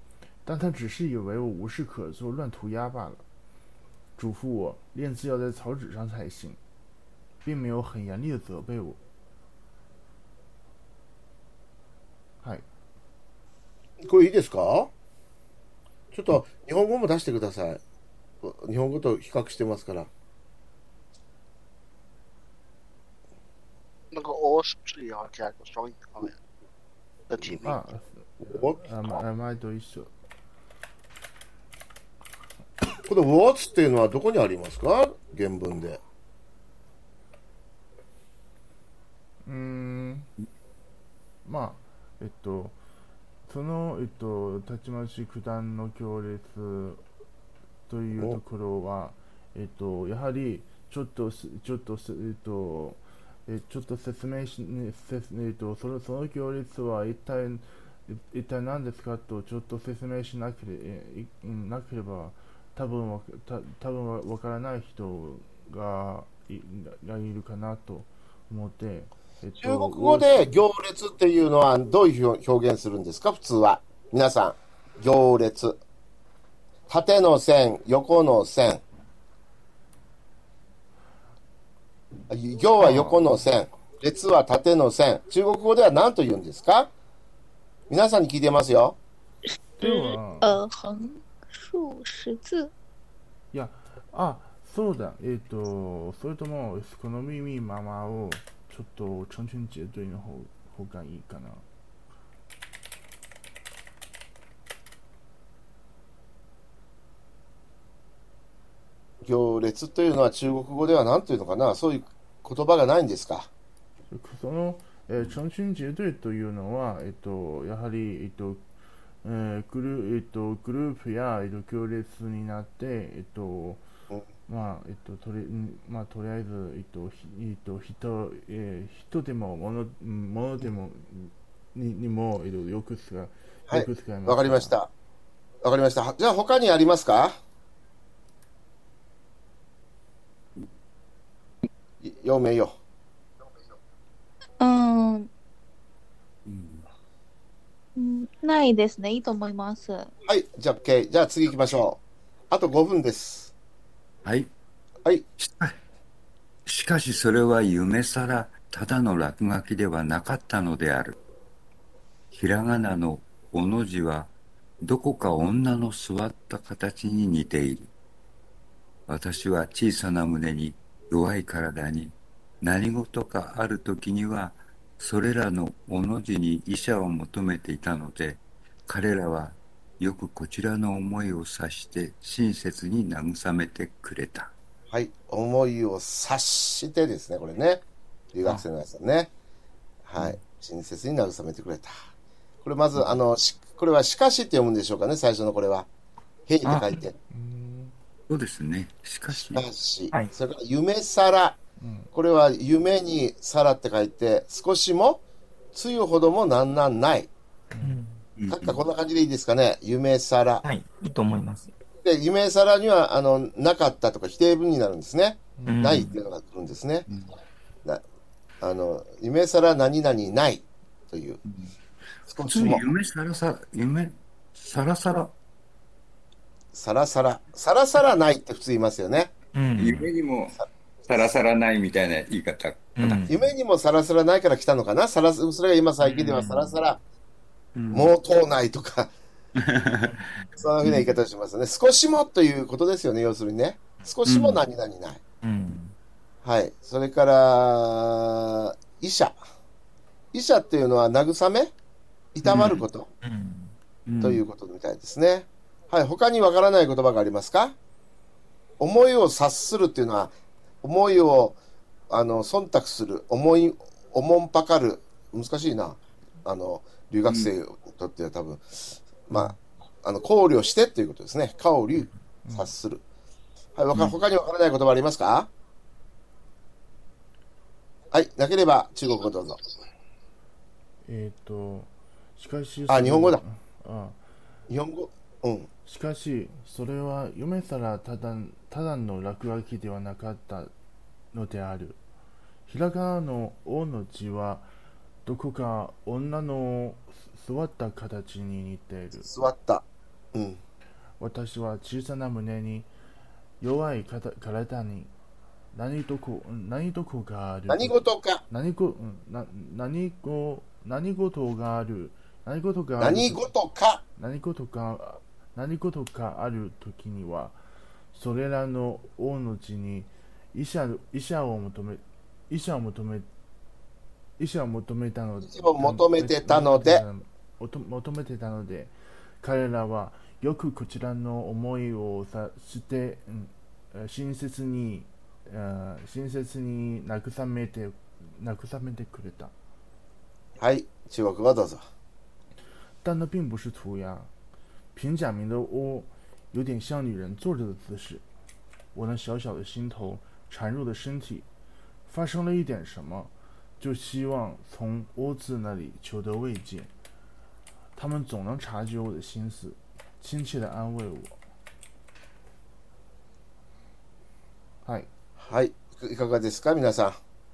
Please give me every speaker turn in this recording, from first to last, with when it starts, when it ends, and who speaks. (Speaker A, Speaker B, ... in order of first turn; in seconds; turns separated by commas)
Speaker A: 0.4-3.2, Speaker A: 4.2-6.6, Speaker A: 7.4-9.0, Speaker B: 14.0-14.9, Speaker B: 16.1-17.8, Speaker B: 18.4-20.1, Speaker C: 24.1-26.4, Speaker C: 27.3-27.8, Speaker A: 27.6-30.1, Speaker B: 28.4-29.1, Speaker B: 33.0-36.0, Speaker A: 39.5-40.3, Speaker A: 41.4-42.8, Speaker A: 43.5-47.0, Speaker A: 47.9-70.6, Speaker B: 69.6-75.8, Speaker B: 76.9-78.8, Speaker B: 82.3-86.9, Speaker A: 82.8-83.4, Speaker B: 87.9-89.0, Speaker A: 89.8-90.6, Speaker D: 89.8-92.7, Speaker A: 93.5-101.6, Speaker B: 109.2-113.5, Speaker A: 114.1-118.6, Speaker A: 119.2-123.8, Speaker A: 124.5-134.7, Speaker B: 133.7-134.9, Speaker B: 135.6-137.3, Speaker B: 142.0-142.8, Speaker D: 144.6-145.3, Speaker E: 146.4-146.9, Speaker D: 147.9-150.1, Speaker B: 150.2-152.0, Speaker B: 152.5-153.5, Speaker E: 154.2-154.5, Speaker E: 155.4-155.8, Speaker E: 156.7-161.2, Speaker E: 162.3-167.9, Speaker E: 169.1-184.5, Speaker B: 184.9-189.3, Speaker B: 190.1-191.9, Speaker B: 192.6-195.9, Speaker B: 196.5-197.2, Speaker F: 196.7-196.9, Speaker A: 197.3-197.9, Speaker E: 198.3-199.6, Speaker B: 199.3-201.6, Speaker A: 201.8-202.1, Speaker B: 202.1-205.2, Speaker B: 205.7-207.3, Speaker A: 207.7-208.0, Speaker F: 207.8-208.2, Speaker E: 208.4-208.8, Speaker B: 208.5-210.6, Speaker F: 210.6-211.7, Speaker B: 212.0-217.1, Speaker A: 215.6-215.8, Speaker F: 215.7-216.2, Speaker B: 218.6-221.4, Speaker B: 222.2-222.8, Speaker E: 222.4-225.3, Speaker B: 226.7-229.3, Speaker F: 229.5-230.1, Speaker E: 229.8-233.3, Speaker F: 233.0-233.4, Speaker B: 233.3-237.0, Speaker F: 236.0-236.8, Speaker E: 237.8-238.1, Speaker B: 237.9-239.1, Speaker E: 239.7-240.1, Speaker F: 240.1-240.7, Speaker B: 240.5-245.2, Speaker E: 244.2-244.6, Speaker F: 245.4-245.9, Speaker B: 246.4-249.4, Speaker B: 250.3-251.7, Speaker B: 252.3-253.1, Speaker F: 252.4-254.4, Speaker B: 254.2-257.8, Speaker B: 258.8-261.6, Speaker B: 262.1-273.0, Speaker A: 272.4-272.7, Speaker B: 273.8-275.5, Speaker B: 278.1-279.6, Speaker A: 281.1-284.2, Speaker B: 282.9-283.4, Speaker B: 284.7-285.7, Speaker A: 285.9-290.7, Speaker A: 291.3-292.0, Speaker A: 292.7-294.7, Speaker A: 295.2-299.3, Speaker B: 299.2-300.6, Speaker A: 301.2-302.9, Speaker A: 303.6-305.1, Speaker A: 305.7-313.5, Speaker B: 307.7-308.4, Speaker B: 313.0-314.0, Speaker A: 314.2-317.6, Speaker A: 318.1-323.3, Speaker A: 324.4-339.5, Speaker B: 325.4-327.0, Speaker B: 340.6-341.8, Speaker A: 343.0-344.3, Speaker A: 344.9-348.2, Speaker A: 348.9-351.4, Speaker A: 352.1-356.9, Speaker A: 357.9-361.4, Speaker A: 364.8-365.1, Speaker B: 365.4-367.2